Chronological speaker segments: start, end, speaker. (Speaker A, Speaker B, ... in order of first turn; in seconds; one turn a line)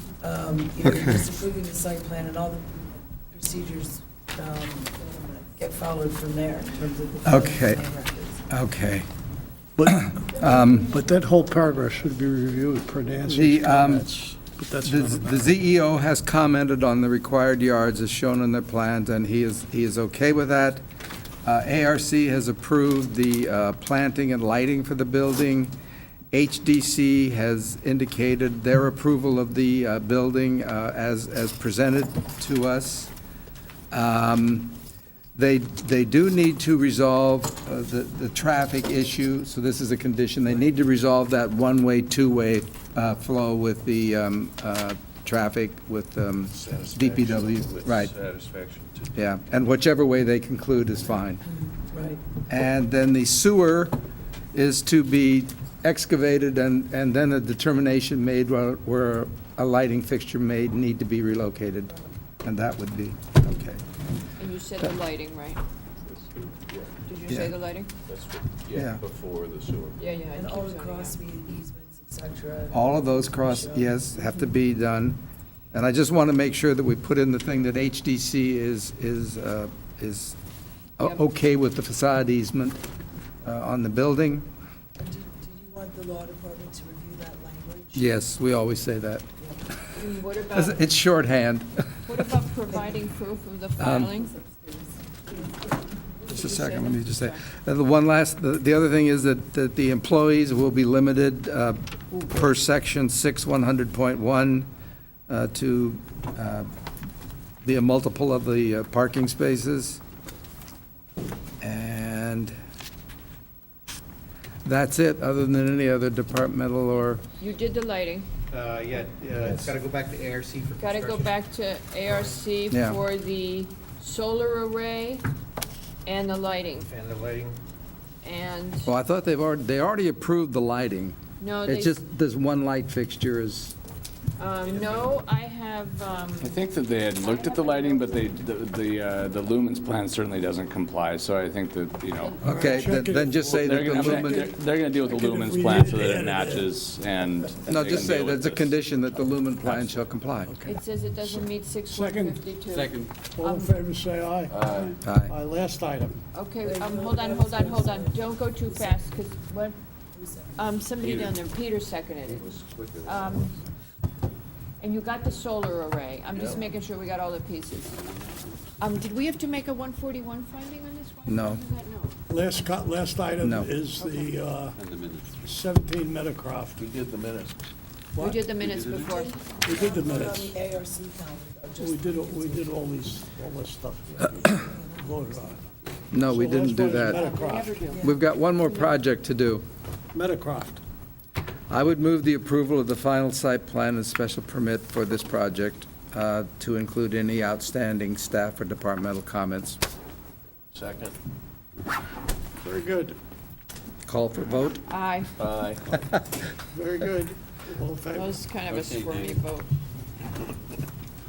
Speaker A: 0.2-8.4
Speaker B: 7.2-7.8
Speaker B: 8.5-9.1
Speaker C: 9.8-15.6
Speaker B: 9.9-10.9
Speaker B: 13.3-14.1
Speaker B: 14.8-20.8
Speaker B: 21.4-25.8
Speaker B: 26.3-33.1
Speaker B: 33.9-34.8
Speaker B: 35.4-48.1
Speaker D: 46.5-49.3
Speaker B: 49.1-51.4
Speaker A: 51.5-52.2
Speaker B: 52.5-54.0
Speaker B: 54.5-63.8
Speaker E: 64.4-65.6
Speaker E: 67.1-67.9
Speaker D: 68.1-70.0
Speaker B: 68.7-69.0
Speaker E: 70.0-71.2
Speaker A: 70.3-74.3
Speaker B: 72.7-75.2
Speaker B: 75.7-80.4
Speaker B: 81.0-82.8
Speaker B: 83.4-84.5
Speaker A: 85.0-88.1
Speaker B: 88.0-89.3
Speaker E: 90.0-90.9
Speaker B: 90.5-92.3
Speaker E: 92.1-94.3
Speaker A: 92.7-93.0
Speaker B: 93.8-94.1
Speaker A: 94.3-94.9
Speaker E: 96.2-97.4
Speaker B: 96.3-104.7
Speaker B: 105.3-106.7
Speaker B: 107.6-110.0
Speaker B: 111.6-112.5
Speaker B: 114.7-117.2
Speaker E: 117.4-118.3
Speaker F: 118.5-121.4
Speaker E: 120.8-125.3
Speaker F: 122.1-122.4
Speaker B: 122.7-123.0
Speaker E: 126.0-126.9
Speaker F: 127.0-127.6
Speaker E: 128.2-128.9
Speaker B: 128.9-133.8
Speaker E: 131.4-132.0
Speaker E: 134.4-138.2
Speaker D: 134.7-135.0
Speaker G: 136.4-142.5
Speaker E: 142.2-143.2
Speaker B: 142.4-144.5
Speaker C: 142.4-146.7
Speaker G: 143.4-148.7
Speaker B: 147.7-150.5
Speaker C: 150.5-152.5
Speaker E: 150.7-153.7
Speaker D: 152.7-153.1
Speaker C: 153.2-156.2
Speaker D: 154.5-155.0
Speaker B: 155.0-155.3
Speaker E: 156.3-159.8
Speaker A: 156.6-159.2
Speaker A: 160.1-160.8
Speaker E: 160.6-162.5
Speaker D: 161.0-161.4
Speaker D: 162.3-163.5
Speaker E: 163.0-163.6
Speaker E: 164.8-168.0
Speaker D: 166.3-166.7
Speaker E: 168.8-172.2
Speaker B: 171.3-171.6
Speaker C: 172.3-174.8
Speaker B: 173.4-173.7
Speaker D: 174.8-175.5
Speaker C: 175.4-176.8
Speaker D: 176.8-177.6
Speaker C: 178.2-178.5
Speaker E: 178.2-179.4
Speaker D: 178.6-179.1
Speaker A: 179.0-182.8
Speaker C: 179.6-180.6
Speaker C: 181.8-185.6
Speaker A: 184.4-185.7
Speaker B: 186.1-187.3
Speaker C: 186.2-187.8
Speaker E: 187.1-188.9
Speaker A: 187.9-188.2
Speaker B: 188.0-189.7
Speaker C: 190.1-190.8
Speaker B: 191.7-199.8
Speaker D: 200.7-201.2
Speaker C: 202.6-203.2
Speaker B: 204.1-204.8
Speaker E: 204.9-205.3
Speaker D: 205.4-206.0
Speaker C: 206.7-208.4
Speaker E: 208.1-209.7
Speaker D: 208.7-209.4